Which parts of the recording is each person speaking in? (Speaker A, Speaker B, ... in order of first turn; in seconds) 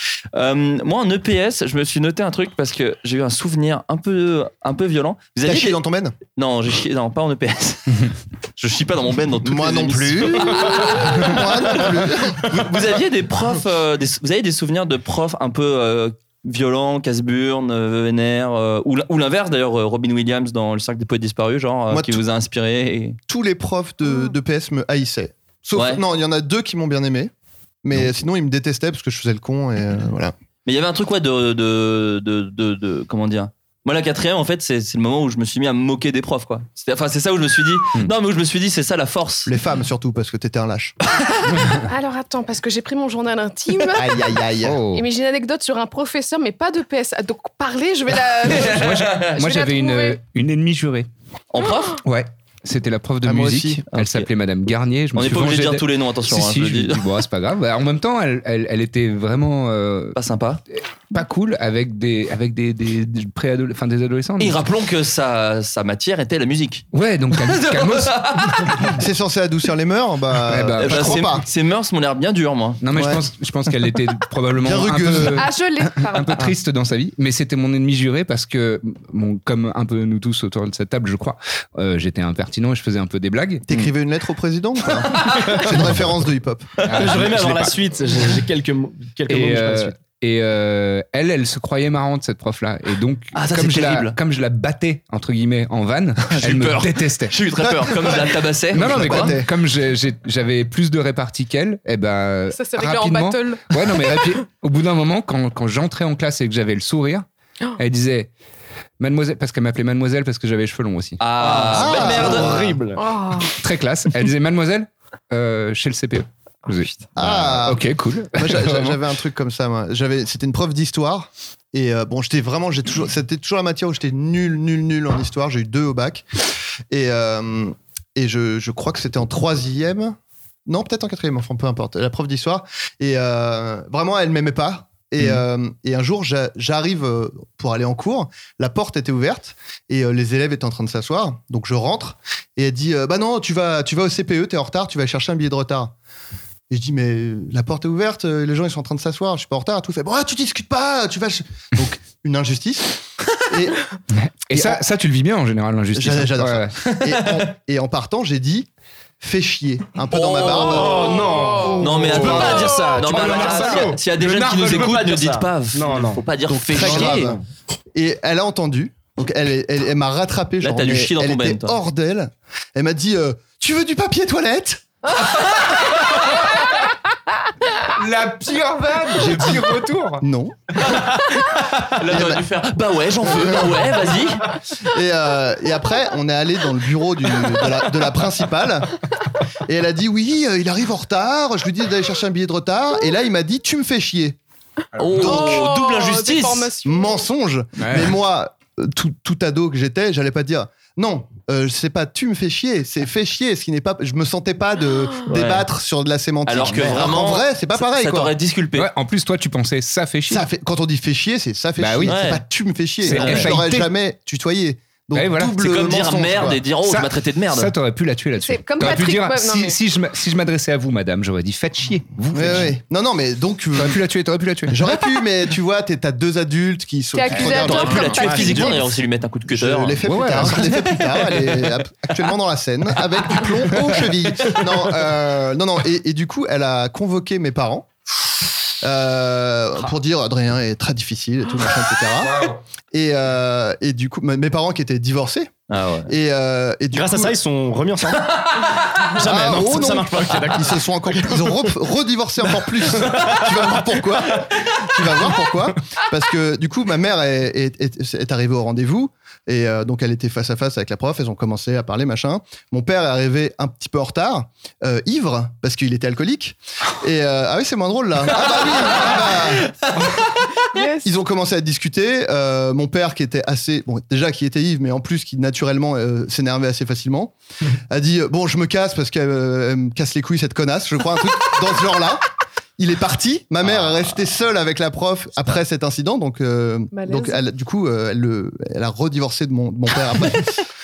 Speaker A: 0.3-5.8, 6.3-23.2, 25.8-26.0, 30.6-39.5, 48.6-49.3, 51.5-52.0, 53.9-54.3, 55.1-57.0, 60.2-60.6, 64.4-69.0, 70.8-72.8, 86.8-87.2, 93.3-94.2, 96.3-99.4, 111.2-112.6, 156.8-157.5, 160.1-161.1, 161.8-167.3, 170.6-171.8, 181.8-184.4, 195.0-196.7, 205.3-205.7, 206.5-208.9, 212.1-212.4, 213.1-213.6, 215.5-217.7, 227.4-230.7, 231.2-231.7, 245.7-246.1
Speaker B: 5.4-6.2, 9.4-12.4, 21.9-22.2, 23.3-27.3, 27.8-30.3, 39.5-41.0, 43.9-44.8, 53.2-53.8, 69.0-71.5, 72.9-73.2, 74.6-75.4, 83.7-86.8, 97.6-99.5, 111.7-112.8, 117.2-126.2, 126.9-145.9, 146.7-153.8, 154.5-154.8, 155.9-158.7, 159.2-161.3, 166.5-167.4, 167.9-174.8, 179.2-180.6, 182.0-182.4, 183.2-183.9, 184.8-188.9, 189.7-194.4, 196.8-208.3, 210.3-216.6, 222.3-224.0, 224.7-228.8, 229.5-237.9, 238.8-245.5, 246.1-247.4, 249.2-269.7, 271.0-277.3, 277.9-282.3, 282.8-290.5
Speaker C: 41.9-44.0, 44.9-50.2, 75.3-76.4, 102.5-104.4, 113.0-113.5, 160.9-163.6, 195.2-197.2, 218.4-219.8, 227.1-228.9, 270.7-271.1, 286.9-287.4
Speaker D: 44.6-45.0, 48.5-51.1, 52.0-60.2, 61.1-64.6, 66.9-69.0, 70.5-71.4, 72.8-83.9, 86.8-87.7, 89.3-97.4, 98.7-107.2, 107.8-108.3, 109.0-111.2, 113.6-119.0, 154.4-156.8, 162.1-162.4, 163.6-164.9, 177.9-180.2, 195.0-195.4, 197.8-198.2, 206.6-207.0, 208.8-210.5, 211.8-212.3, 213.0-213.9, 215.1-215.6, 216.8-222.8, 223.8-224.8, 230.1-231.0, 242.2-242.6
Speaker E: 86.9-90.0, 111.4-113.0, 160.5-167.4, 228.2-228.8, 246.9-251.6, 253.0-253.5